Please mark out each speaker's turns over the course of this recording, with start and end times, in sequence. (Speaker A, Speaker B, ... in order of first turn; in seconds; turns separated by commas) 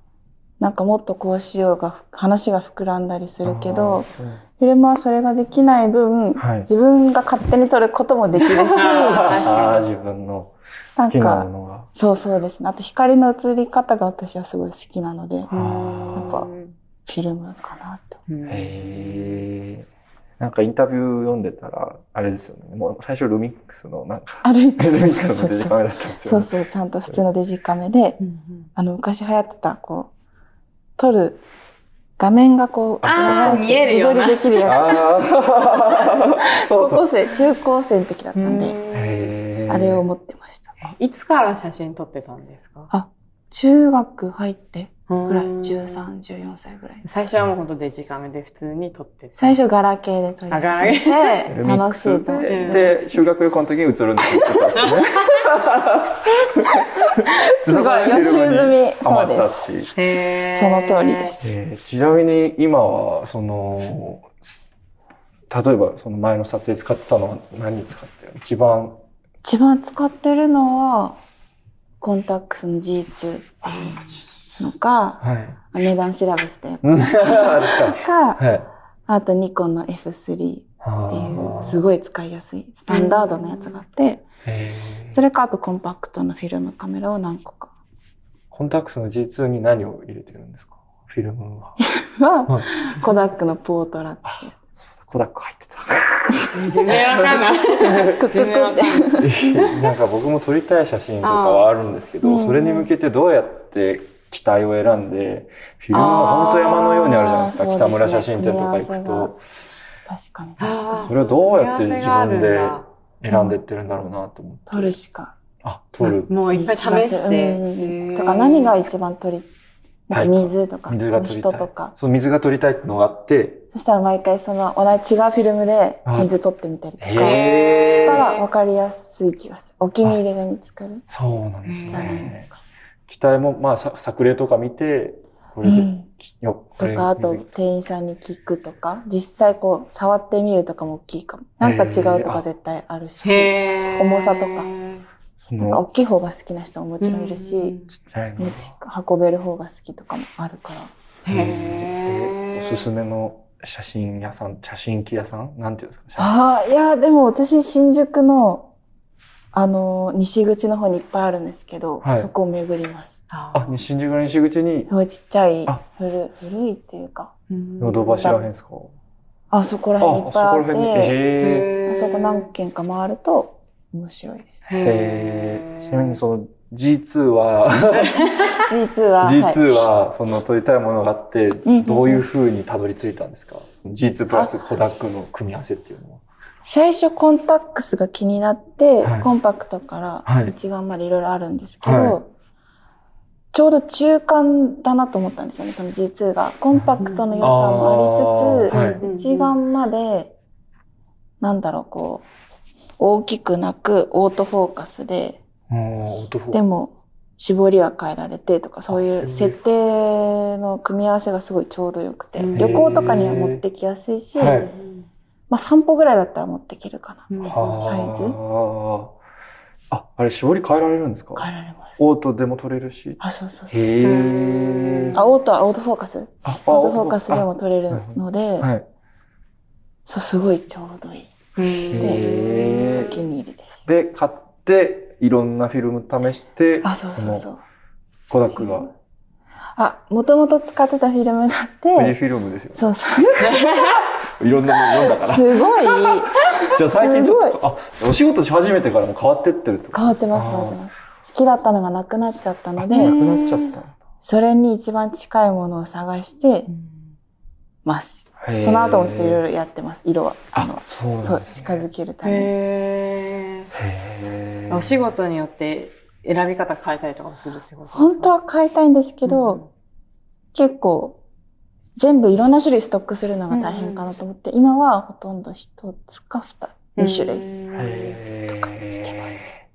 Speaker A: 0.6-4.1, Speaker B: 3.4-4.4, Speaker A: 4.6-9.4, Speaker B: 6.4-6.7, Speaker C: 8.4-9.8, Speaker B: 8.7-11.9, Speaker A: 11.0-15.5, Speaker C: 15.5-16.7, Speaker B: 15.5-16.4, Speaker A: 16.1-16.5, Speaker A: 17.1-18.2, Speaker C: 18.3-19.4, Speaker B: 18.4-19.9, Speaker B: 20.4-26.5, Speaker A: 24.4-28.2, Speaker C: 28.2-28.7, Speaker A: 28.8-30.1, Speaker A: 31.0-31.4, Speaker A: 32.2-35.1, Speaker B: 33.0-33.9, Speaker C: 33.0-34.9, Speaker B: 34.6-37.0, Speaker A: 36.4-38.8, Speaker C: 38.4-39.3, Speaker B: 38.9-40.0, Speaker A: 39.7-40.8, Speaker C: 40.8-42.9, Speaker A: 42.9-47.0, Speaker C: 45.1-46.0, Speaker C: 47.0-49.6, Speaker A: 49.4-53.2, Speaker C: 50.5-51.5, Speaker B: 51.5-59.9, Speaker C: 52.5-52.9, Speaker C: 54.7-55.4, Speaker A: 57.2-59.7, Speaker C: 59.9-61.3, Speaker A: 60.5-61.5, Speaker B: 61.4-64.7, Speaker B: 65.5-69.0, Speaker A: 69.4-71.2, Speaker A: 72.0-78.4, Speaker B: 75.2-75.6, Speaker B: 76.8-78.7, Speaker A: 79.1-84.2, Speaker B: 80.8-81.8, Speaker C: 82.9-83.8, Speaker B: 84.4-85.2, Speaker A: 85.1-87.7, Speaker B: 88.5-91.8, Speaker A: 92.0-94.5, Speaker B: 95.0-98.1, Speaker C: 96.5-99.7, Speaker A: 97.9-99.7, Speaker B: 99.2-109.4, Speaker C: 101.2-101.7, Speaker A: 102.2-102.9, Speaker C: 105.9-106.8, Speaker A: 105.9-109.3, Speaker A: 110.1-111.1, Speaker C: 110.6-112.8, Speaker B: 111.0-114.9, Speaker A: 113.3-113.6, Speaker A: 114.7-115.3, Speaker B: 115.6-116.3, Speaker A: 116.1-119.5, Speaker C: 116.3-118.8, Speaker A: 120.1-121.9, Speaker B: 120.1-123.6, Speaker A: 123.7-131.0, Speaker B: 126.0-126.3, Speaker B: 127.0-128.3, Speaker C: 127.2-128.4, Speaker B: 131.1-132.4, Speaker C: 131.6-132.3, Speaker A: 131.9-132.6, Speaker B: 133.1-137.4, Speaker A: 135.6-136.1, Speaker A: 136.8-144.7, Speaker B: 141.6-142.4, Speaker C: 143.2-145.0, Speaker B: 145.4-145.8, Speaker A: 145.6-147.8, Speaker C: 147.0-147.9, Speaker B: 148.1-148.7, Speaker A: 148.4-150.9, Speaker C: 151.2-152.8, Speaker B: 151.3-156.3, Speaker A: 156.2-158.7, Speaker A: 159.5-163.2, Speaker B: 162.0-162.3, Speaker C: 163.3-163.7, Speaker B: 163.5-164.9, Speaker A: 164.9-167.3, Speaker C: 167.5-168.4, Speaker B: 167.8-168.9, Speaker A: 169.5-171.2, Speaker B: 170.0-171.7, Speaker C: 171.4-172.5, Speaker A: 171.8-174.8, Speaker C: 174.7-176.2, Speaker B: 174.8-178.4, Speaker C: 177.9-178.6, Speaker A: 178.5-179.6, Speaker B: 179.2-186.2, Speaker A: 181.7-182.2, Speaker A: 186.6-192.3, Speaker B: 189.0-189.3, Speaker B: 190.2-190.5, Speaker B: 191.8-192.2, Speaker A: 193.5-200.3, Speaker B: 196.7-199.0, Speaker C: 197.0-197.8, Speaker C: 198.7-199.6, Speaker A: 201.4-202.2, Speaker A: 203.0-205.4, Speaker B: 205.7-206.6, Speaker A: 206.5-214.6, Speaker B: 208.9-209.6, Speaker C: 212.4-212.8, Speaker B: 212.5-213.6, Speaker B: 214.3-214.7, Speaker C: 214.5-215.1, Speaker A: 215.5-218.4, Speaker C: 217.3-217.8, Speaker B: 217.4-219.2, Speaker B: 219.9-223.2, Speaker A: 221.3-222.0, Speaker A: 223.2-223.8, Speaker B: 223.7-225.2, Speaker C: 224.0-225.3, Speaker A: 225.1-228.7, Speaker B: 226.4-228.8, Speaker A: 230.1-231.3, Speaker C: 231.6-233.2, Speaker B: 231.9-233.2, Speaker A: 232.0-232.2, Speaker A: 232.9-233.9, Speaker B: 233.8-237.5, Speaker A: 236.8-237.6, Speaker B: 238.3-238.9, Speaker A: 239.8-242.2, Speaker B: 241.9-242.9, Speaker A: 242.7-244.0, Speaker C: 243.4-244.0, Speaker B: 244.4-245.9, Speaker A: 244.9-247.6, Speaker B: 246.7-250.8, Speaker A: 249.9-253.2, Speaker B: 252.8-253.9, Speaker C: 252.9-253.7, Speaker A: 254.2-256.7, Speaker A: 257.8-262.5, Speaker B: 258.4-259.4, Speaker B: 260.5-261.9, Speaker C: 262.2-263.7, Speaker B: 263.7-264.9, Speaker C: 264.7-268.3, Speaker A: 267.9-269.6, Speaker C: 269.2-269.7, Speaker A: 270.5-271.2, Speaker A: 271.9-277.4, Speaker C: 273.5-274.1, Speaker C: 277.0-278.2, Speaker B: 277.7-279.6, Speaker A: 278.6-279.5